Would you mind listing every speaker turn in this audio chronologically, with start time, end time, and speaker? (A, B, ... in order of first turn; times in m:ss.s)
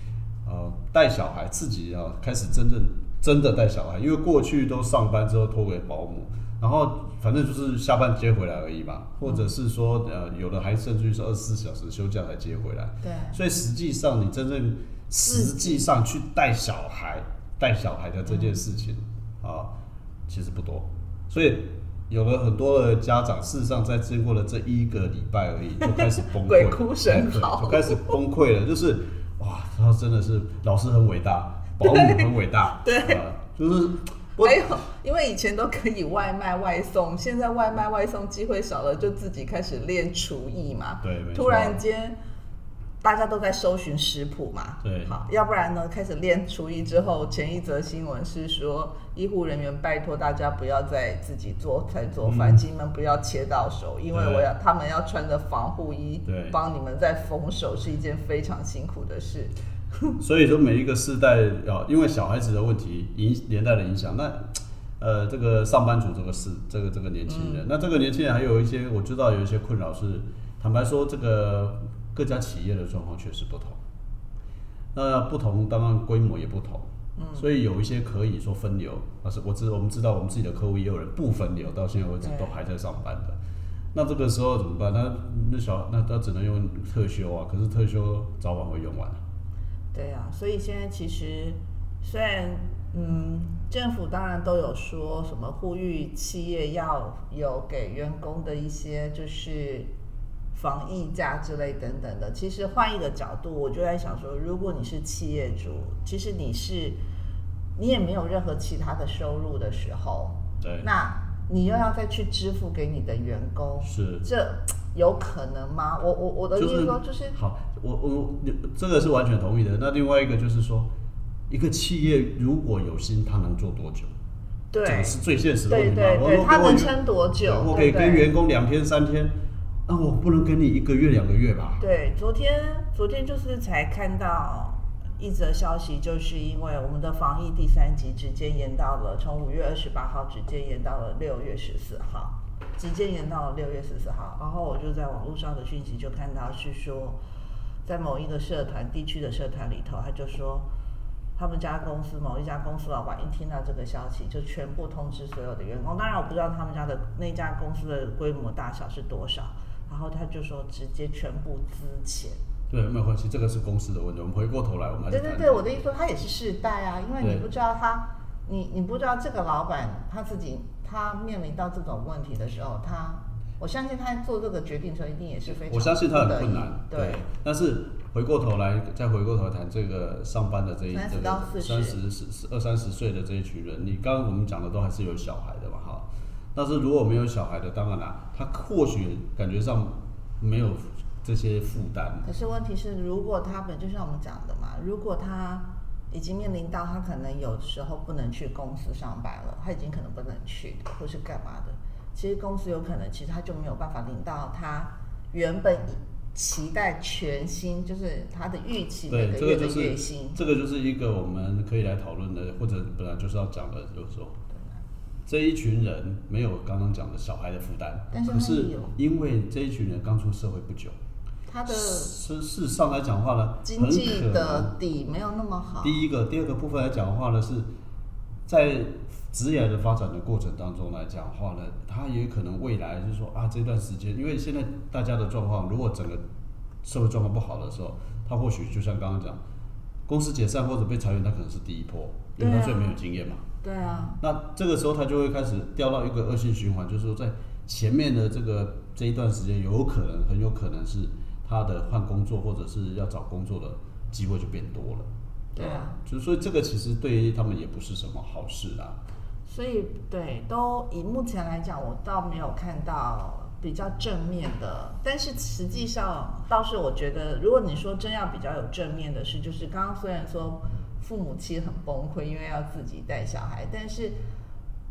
0:00.4-0:19.7 A
0:09.2-0:09.5 B
0:13.0-0:13.4 B
0:15.2-0:15.9 B
0:18.3-0:18.6 B
0:20.3-0:34.7 A
0:25.8-0:28.2 B
0:31.8-0:33.2 B
0:34.4-0:42.2 B
0:41.0-0:41.8 A
0:43.0-1:00.2 B
0:44.8-0:45.1 A
0:52.2-0:52.6 A
0:54.1-0:54.5 A
0:56.3-0:56.6 A
1:00.2-1:13.8 A
1:07.3-1:07.6 B
1:14.9-1:23.4 A
1:17.2-1:17.5 B
1:22.2-1:22.6 B
1:23.9-1:29.2 A
1:29.9-1:39.9 B
1:40.5-1:47.0 B
1:47.8-1:57.4 B
1:50.6-1:50.9 A
1:53.8-1:54.3 A
1:56.6-2:00.9 A
2:01.5-2:04.1 A
2:04.7-2:08.3 B
2:04.8-2:09.3 A
2:09.9-2:11.8 A
2:11.8-2:27.2 B
2:27.8-2:30.7 B
2:31.4-2:42.4 B
2:42.7-2:45.7 A
2:45.1-2:57.2 B
2:47.2-2:47.5 A
2:55.7-3:12.3 A
3:00.9-3:02.0 B
3:12.2-3:30.4 B
3:29.1-3:34.4 A
3:35.3-3:41.0 A
3:38.1-3:39.0 B
3:41.5-3:42.1 B
3:41.7-3:44.8 A
3:43.6-3:46.0 B
3:45.8-3:47.7 A
3:48.5-3:56.2 A
3:56.8-3:59.4 A
4:00.1-4:03.4 A
4:02.4-4:03.0 B
4:03.6-4:04.2 B
4:04.2-4:19.0 A
4:15.6-4:16.0 B
4:19.5-4:34.2 B